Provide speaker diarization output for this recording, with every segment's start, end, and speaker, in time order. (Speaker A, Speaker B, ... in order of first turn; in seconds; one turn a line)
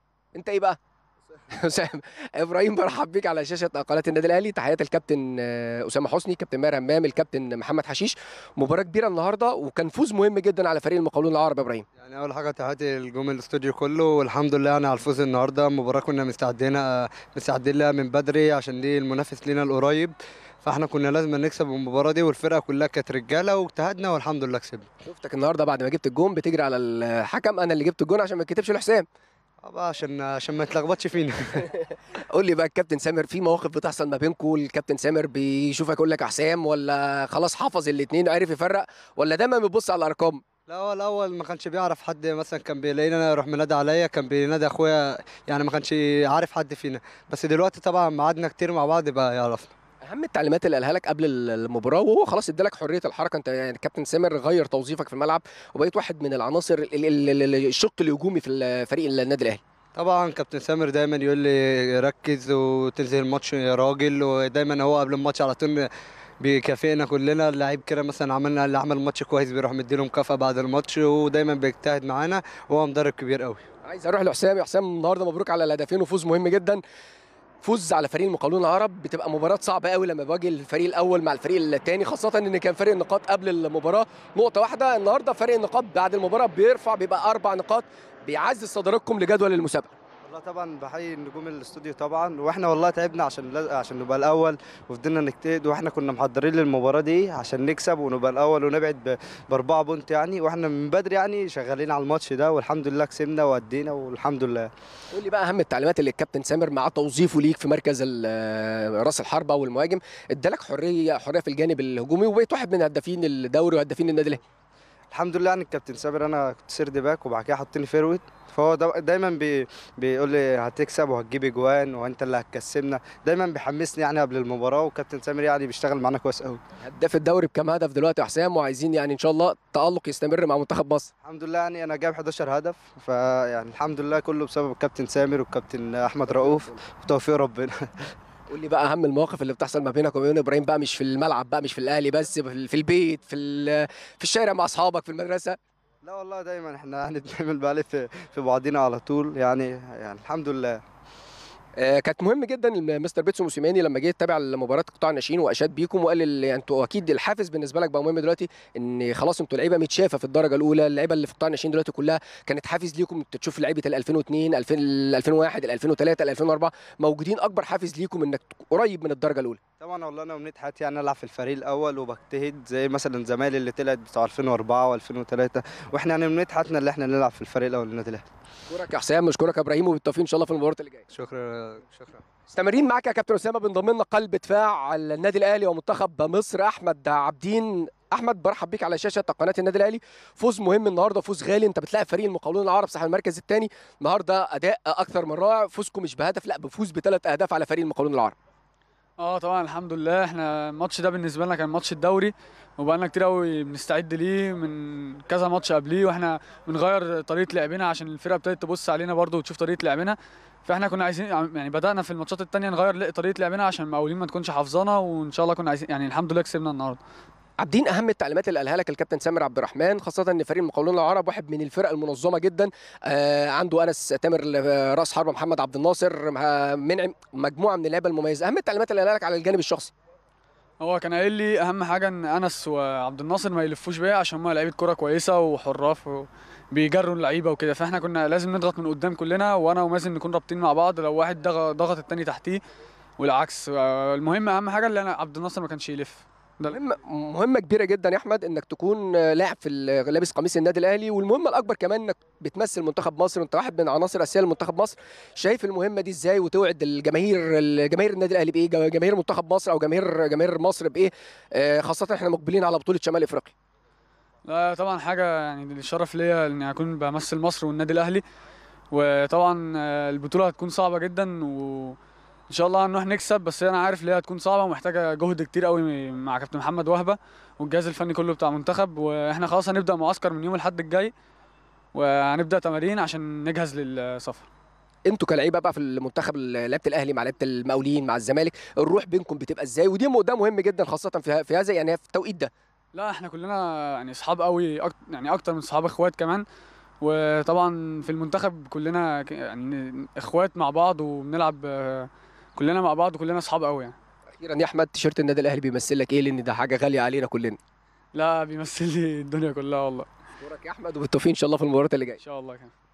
Speaker A: 0.3-0.8
Speaker A: 1.5-11.8
Speaker B: 12.0-24.9
Speaker A: 25.1-29.1
Speaker B: 29.6-31.6
Speaker A: 31.7-40.4
Speaker B: 40.7-49.7
Speaker A: 50.1-59.6
Speaker B: 60.0-65.9
Speaker B: 66.4-73.6
Speaker A: 73.9-76.8
Speaker A: 77.6-89.9
Speaker B: 90.3-104.7
Speaker A: 105.1-114.4
Speaker B: 115.1-126.6
Speaker A: 126.8-131.1
Speaker B: 131.2-138.1
Speaker A: 136.3-136.8
Speaker A: 138.5-145.6
Speaker B: 146.0-150.8
Speaker A: 151.8-169.6
Speaker B: 169.8-178.2
Speaker A: 178.7-181.1
Speaker B: 181.1-182.2
Speaker A: 182.5-198.4
Speaker C: 199.2-217.0
Speaker A: 217.6-229.9
Speaker C: 230.8-242.6
Speaker C: 243.2-246.8
Speaker A: 246.7-263.5
Speaker C: 264.4-268.2
Speaker C: 268.9-272.0
Speaker C: 272.5-281.1
Speaker C: 281.9-284.5
Speaker A: 285.1-292.5
Speaker C: 292.9-296.4
Speaker C: 297.0-303.9
Speaker A: 304.4-307.6
Speaker C: 308.1-310.1
Speaker A: 310.4-312.2
Speaker C: 312.2-312.7